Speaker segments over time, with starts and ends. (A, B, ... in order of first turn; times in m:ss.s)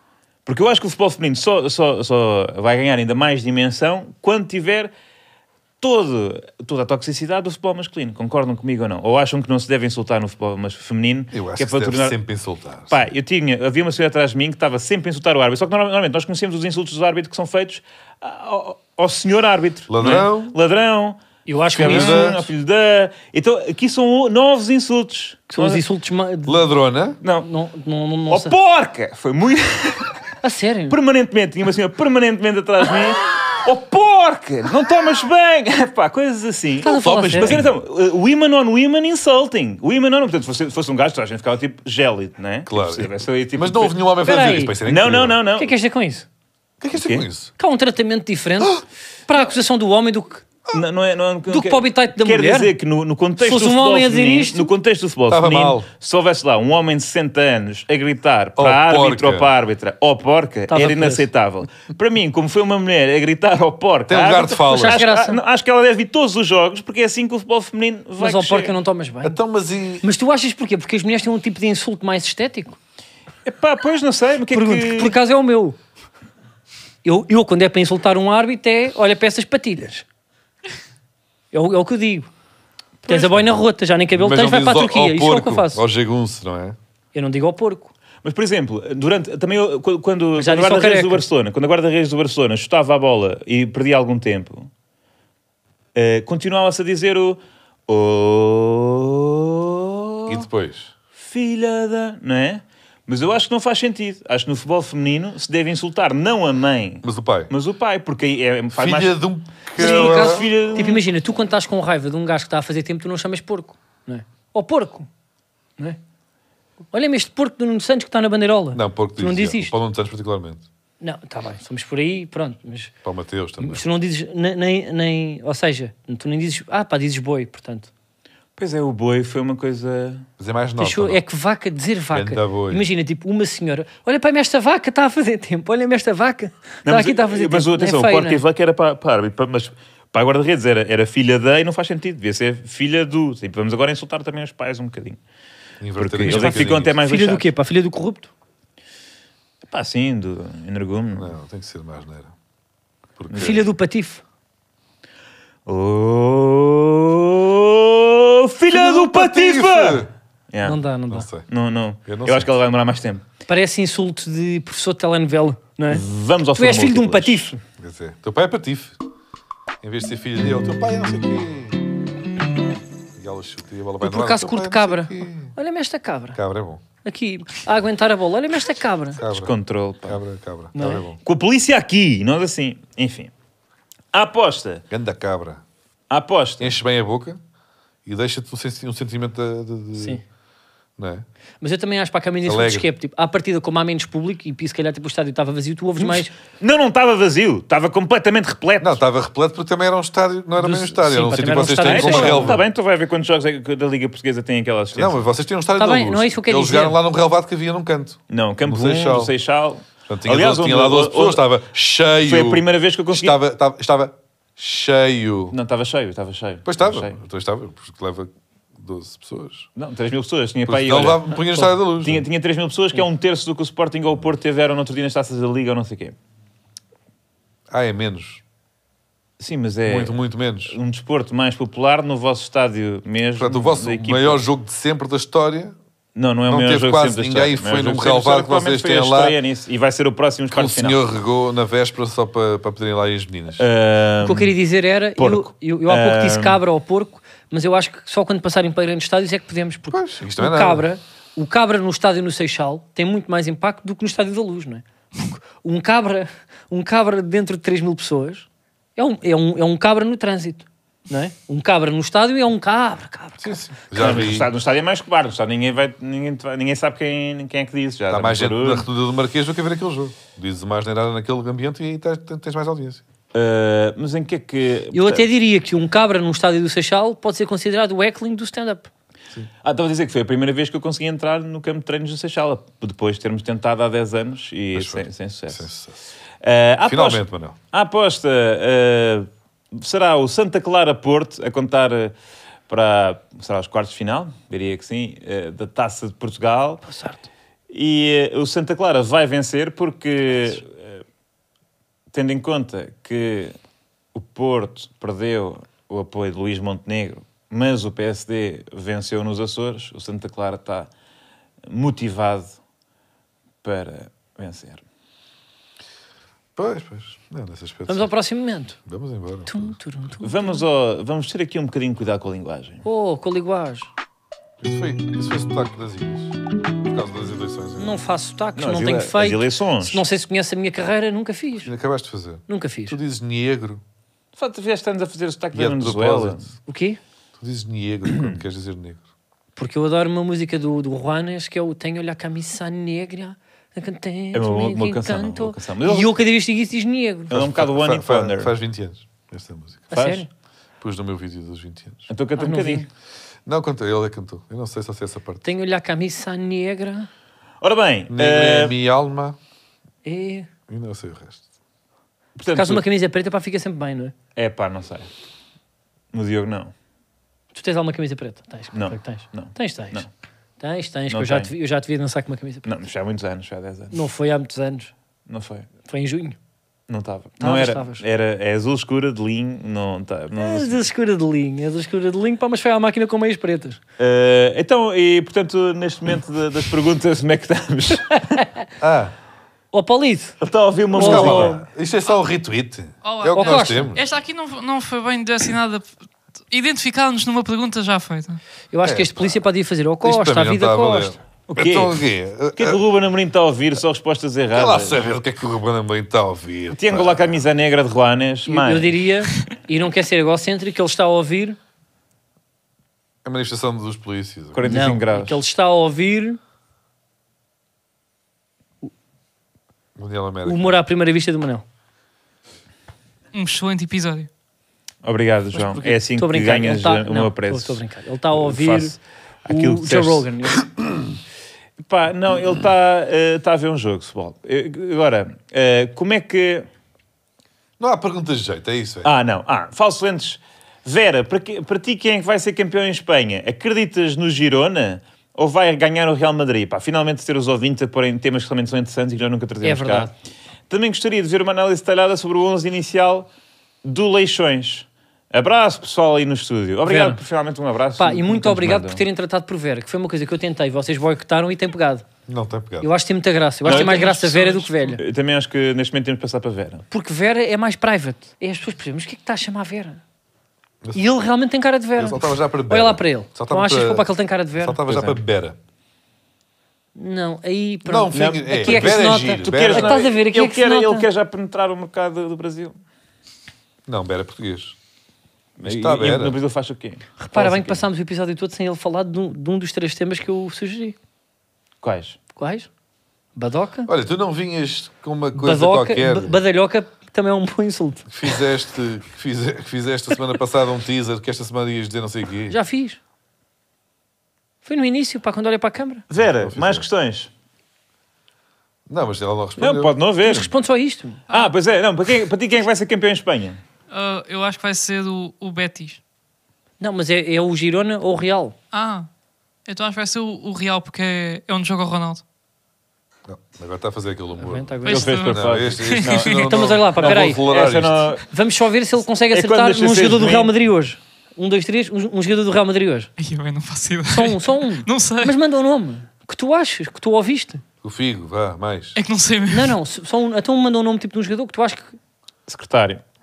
0:00.5-0:04.9 A
0:05.8-0:12.2 A
0:11.3-0:13.1 B
0:12.9-0:21.2 A
0:19.9-0:20.6 B
0:21.5-0:22.3 C
0:21.7-0:25.8 A
0:21.8-0:22.5 B
0:25.5-0:26.7 C
0:26.5-0:27.2 B
0:27.4-0:28.5 C
0:28.3-0:30.2 A
0:30.4-0:31.0 C
0:30.9-0:45.7 A
0:36.8-0:37.6 C
0:36.9-0:37.7 B
0:42.7-0:45.4 B
0:44.2-0:44.7 C
0:45.6-0:46.3 C
0:46.8-0:47.5 B
0:46.9-0:47.3 A
0:47.6-0:50.5 C
0:50.7-1:08.7 A
0:51.5-0:52.7 C
0:53.4-0:54.7 C
0:55.3-0:55.9 B
0:58.6-0:59.5 B
1:00.7-1:01.3 C
1:04.1-1:05.0 B
1:04.7-1:05.4 C
1:08.2-1:09.4 C
1:09.2-1:10.1 B
1:10.0-1:12.8 C
1:13.4-1:15.2 A
1:14.5-1:15.8 C
1:17.0-1:20.0 C
1:21.5-1:22.3 C
1:23.0-1:23.5 A
1:23.1-1:25.8 C
1:24.2-1:26.8 B
1:27.1-1:27.9 C
1:28.2-1:34.7 A
1:30.4-1:31.2 C
1:36.0-1:40.4 A
1:40.3-1:40.9 B
1:41.2-1:51.0 A
1:47.0-1:47.5 B
1:48.8-1:50.5 B
1:49.8-1:55.1 C
1:56.9-1:59.8 C
1:58.7-2:00.7 B
2:01.0-2:02.9 C
2:03.0-2:03.8 B
2:03.6-2:07.9 C
2:08.6-2:10.2 A
2:10.4-2:11.2 B
2:10.8-2:18.4 C
2:12.1-2:12.9 B
2:16.9-2:25.2 A
2:25.8-2:27.0 B
2:26.0-2:27.5 A
2:26.2-2:28.3 C
2:29.7-2:31.3 A
2:31.1-2:32.3 B
2:33.2-2:33.7 B
2:33.3-2:33.7 A
2:33.3-2:34.2 C
2:35.7-2:40.8 A
2:38.7-2:40.1 B
2:40.6-2:41.3 C
2:41.1-2:41.5 B
2:41.5-2:43.2 A
2:42.1-2:42.5 B
2:43.5-2:46.0 C
2:45.9-2:47.4 A
2:46.6-2:47.6 C
2:47.8-2:49.0 B
2:49.8-2:51.8 B
2:53.2-2:55.5 B
2:54.0-2:56.4 C
2:56.4-2:56.8 B
2:57.0-2:59.2 C
2:59.2-3:01.2 B
2:59.3-3:00.2 A
3:00.8-3:01.0 C
3:01.2-3:03.3 A
3:04.1-3:04.8 A
3:04.9-3:05.6 B
3:06.1-3:06.8 A
3:06.6-3:07.4 B
3:08.0-3:10.2 B
3:11.0-3:11.2 B
3:11.6-3:16.3 C
3:12.4-3:12.9 B
3:16.0-3:19.0 A
3:18.8-3:22.6 B
3:20.6-3:22.6 C
3:21.8-3:25.2 A
3:25.0-3:29.3 B
3:25.8-3:27.0 C
3:28.3-3:31.4 A
3:30.1-3:35.6 B
3:32.2-3:33.4 A
3:35.5-3:37.2 A
3:36.7-3:39.7 B
3:39.8-3:46.2 A
3:40.7-3:42.2 B
3:47.7-3:48.4 B
3:49.4-3:50.2 A
3:49.8-3:50.8 B
3:50.7-3:54.4 A
3:53.4-3:55.8 B
3:56.2-4:01.0 A
3:56.5-3:59.4 B
4:00.5-4:03.6 B
4:03.6-4:04.6 A
4:04.2-4:23.6 C
4:05.2-4:06.6 A
4:09.9-4:10.8 B
4:23.4-4:24.5 B
4:23.9-4:28.9 A
4:28.1-4:33.0 B
4:33.3-4:35.3 A
4:34.9-4:38.9 C
4:39.6-4:45.7 A
4:44.7-4:46.0 B
4:46.4-4:52.1 A
4:46.8-4:47.6 B
4:52.7-4:56.9 A
4:56.8-4:57.2 C
4:57.7-5:01.0 A
5:02.1-5:03.6 A
5:04.1-5:10.9 A
5:11.7-5:12.6 A
5:13.6-5:14.8 A
5:16.6-5:18.1 B
5:17.9-5:18.8 C
5:18.9-5:19.8 B
5:19.5-5:20.6 C
5:20.2-5:22.8 A
5:22.8-5:23.9 C
5:24.6-5:28.0 B
5:27.8-5:31.7 C
5:28.6-5:30.0 A
5:31.6-5:33.8 B
5:32.5-5:33.0 C
5:34.4-5:36.5 A
5:35.5-5:36.5 B
5:36.7-5:37.0 C
5:37.4-5:39.0 B
5:38.1-5:38.4 A
5:39.6-5:47.4 C
5:44.3-5:46.2 A
5:47.3-5:48.5 A
5:47.3-5:49.9 B
5:49.9-5:50.3 C
5:49.9-5:50.2 A
5:50.8-5:52.1 B
5:52.1-5:52.9 A
5:52.4-5:52.9 C
5:53.5-5:55.5 B
5:55.4-5:57.1 C
5:57.6-5:58.7 A
5:58.1-5:59.4 B
6:00.0-6:00.5 C
6:00.7-6:01.4 B
6:02.4-6:02.8 A
6:02.5-6:04.2 C
6:04.4-6:05.1 A
6:06.1-6:06.7 A
6:07.5-6:10.0 C
6:08.7-6:10.1 A
6:10.6-6:12.6 C
6:11.1-6:11.5 A
6:12.6-6:14.0 A
6:13.9-6:14.9 C
6:15.3-6:15.7 A
6:15.9-6:16.4 C
6:16.9-6:20.8 A
6:17.4-6:18.0 C
6:20.4-6:23.8 C
6:24.0-6:28.1 A
6:28.1-6:28.7 C
6:28.8-6:29.1 B
6:29.7-6:30.4 C
6:30.4-6:31.6 A
6:30.9-6:31.7 C
6:31.0-6:34.1 B
6:33.0-6:35.9 D
6:33.4-6:33.9 C
6:36.5-6:38.4 D
6:38.7-6:41.2 C
6:38.8-6:39.4 B
6:40.0-6:42.8 B
6:41.5-6:42.0 A
6:42.6-6:45.0 A
6:44.5-6:47.4 B
6:46.7-6:49.0 A
6:48.5-6:51.6 C
6:53.2-6:54.7 B
6:54.5-6:55.4 A
6:54.6-6:56.4 C
7:00.0-7:00.8 B
7:00.4-7:01.6 C
7:03.3-7:04.3 D
7:05.0-7:10.3 A
7:05.5-7:09.0 C
7:09.5-7:10.6 C
7:11.8-7:16.7 A
7:17.8-7:19.1 B
7:19.0-7:30.1 A
7:29.6-7:30.1 C
7:30.7-7:33.3 A
7:33.8-7:39.0 A
7:36.8-7:37.2 C
7:38.0-7:42.1 C
7:42.3-7:42.9 B
7:42.8-7:45.0 C
7:43.6-7:44.7 D
7:43.6-7:46.8 A
7:46.9-7:50.0 C
7:50.9-7:54.8 C
7:52.0-7:54.1 B
7:54.6-7:55.6 B
7:54.9-7:55.2 A
7:57.0-8:01.1 C
7:57.9-8:00.1 B
7:58.1-8:02.8 A
8:03.9-8:04.8 B
8:05.6-8:07.8 A
8:05.6-8:06.4 B
8:07.2-8:11.0 C
8:11.8-8:12.2 A
8:12.4-8:12.7 C
8:13.4-8:13.9 C
8:13.9-8:16.4 B
8:15.4-8:18.3 C
8:18.1-8:22.6 B
8:22.5-8:23.0 C
8:24.6-8:26.0 C
8:26.1-8:27.3 A
8:26.4-8:26.8 B
8:28.9-8:30.0 B
8:29.6-8:30.5 A
8:30.2-8:31.2 C
8:31.3-8:33.6 A
8:33.9-8:36.0 D
8:36.8-8:38.6 C
8:38.7-8:39.1 D
8:39.6-8:42.2 D
8:43.3-8:48.1 B
8:44.4-8:45.3 C
8:44.8-8:46.4 D
8:44.9-8:48.2 A
8:46.2-8:47.4 C
8:48.3-8:53.1 C
8:49.3-8:50.6 A
8:53.2-8:55.4 D
8:54.1-8:57.6 C
8:57.8-8:59.0 B
8:59.0-8:59.8 D
8:59.5-9:02.0 C
9:02.5-9:03.0 A